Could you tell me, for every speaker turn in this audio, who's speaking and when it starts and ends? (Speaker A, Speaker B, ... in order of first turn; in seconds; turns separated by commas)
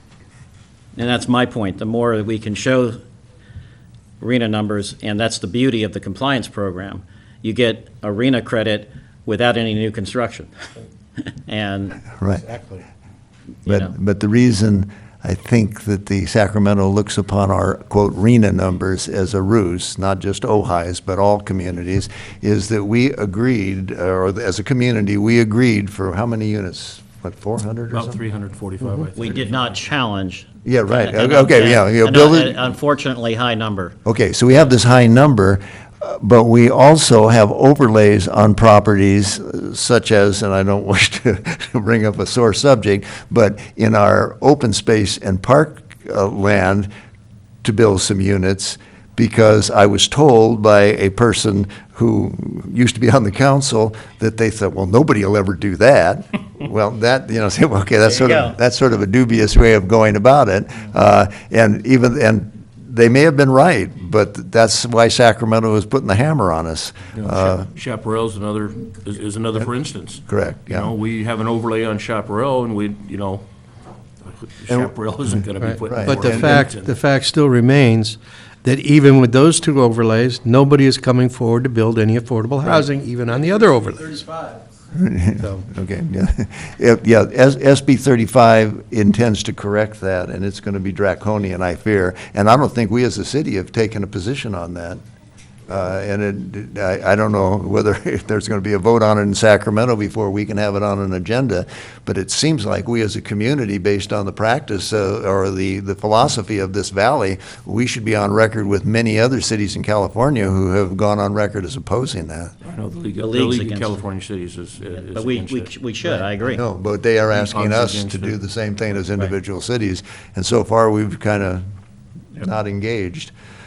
Speaker A: 0.9-3.0, Speaker A: 4.2-10.5, Speaker A: 11.4-12.1, Speaker B: 12.2-12.6, Speaker A: 13.7-13.9, Speaker B: 13.7-28.2, Speaker C: 27.9-29.7, Speaker A: 29.1-33.9, Speaker B: 30.6-32.6, Speaker B: 34.0-46.9, Speaker B: 47.6-67.7, Speaker A: 58.0-58.6, Speaker C: 67.2-73.5, Speaker B: 70.2-70.9, Speaker C: 74.2-77.0, Speaker D: 75.6-84.5, Speaker B: 75.9-76.6, Speaker B: 84.9-95.0, Speaker B: 95.7-112.5, Speaker C: 112.6-115.7, Speaker A: 113.2-114.0, Speaker A: 115.1-116.6, Speaker B: 116.4-121.6, Speaker C: 117.3-118.3, Speaker B: 122.3-123.3